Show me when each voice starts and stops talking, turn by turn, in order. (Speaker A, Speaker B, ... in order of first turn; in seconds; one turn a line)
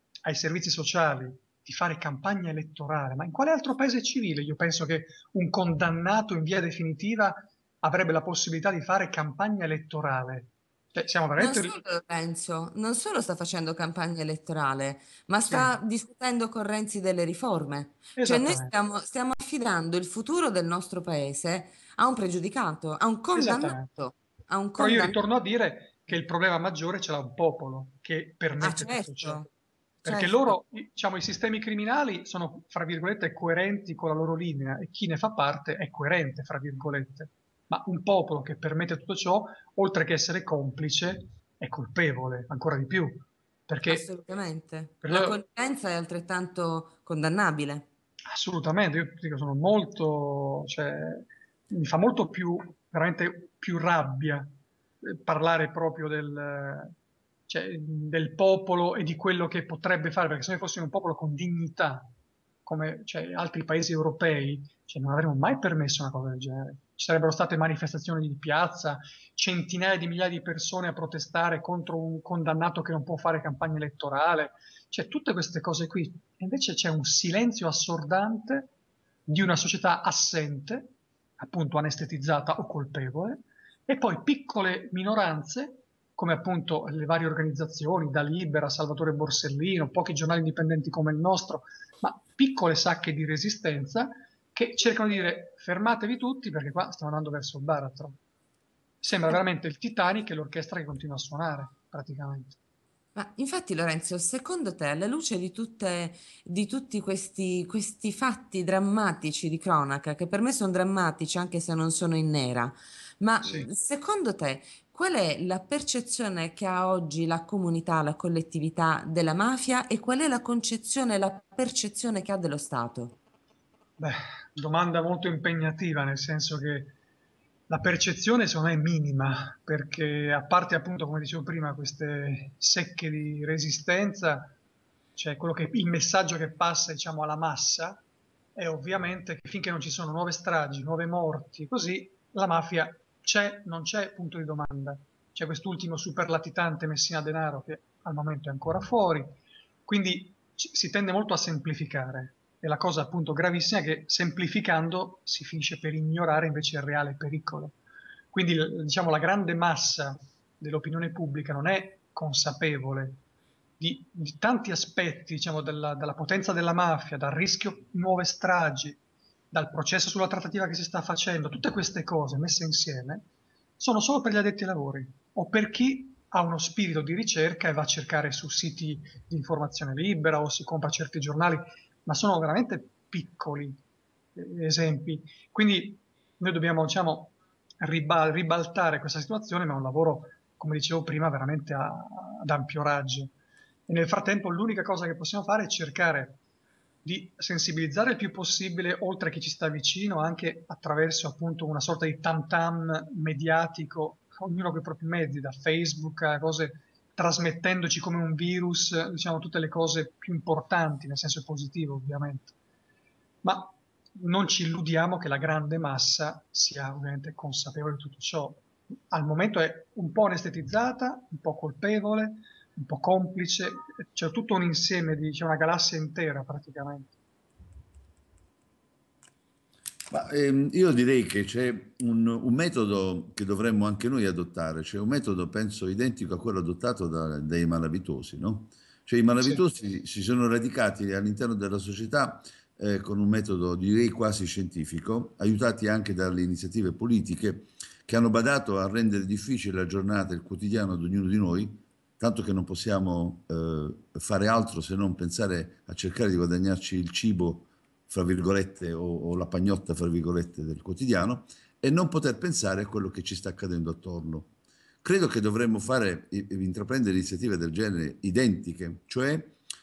Speaker A: 0.3-11.7
Speaker B: 11.4-25.2
Speaker A: 18.2-18.7
Speaker A: 23.3-23.9
Speaker A: 24.8-29.4
Speaker B: 28.6-29.5
Speaker B: 30.0-30.6
Speaker A: 30.1-44.0
Speaker B: 43.9-47.9
Speaker A: 45.0-45.4
Speaker A: 48.3-57.0
Speaker A: 57.5-62.1
Speaker A: 62.7-78.7
Speaker A: 79.3-98.2
Speaker A: 99.0-102.6
Speaker B: 103.2-123.2
Speaker A: 124.0-127.0
Speaker A: 127.7-134.5
Speaker A: 135.2-138.0
Speaker A: 138.6-149.4
Speaker A: 149.9-157.8
Speaker A: 158.3-163.2
Speaker A: 163.8-169.0
Speaker A: 169.5-173.3
Speaker A: 173.8-183.8
Speaker A: 184.4-193.3
Speaker A: 193.9-196.4
Speaker A: 197.0-212.6
Speaker A: 213.4-227.1
Speaker C: 230.1-264.5
Speaker C: 265.0-269.6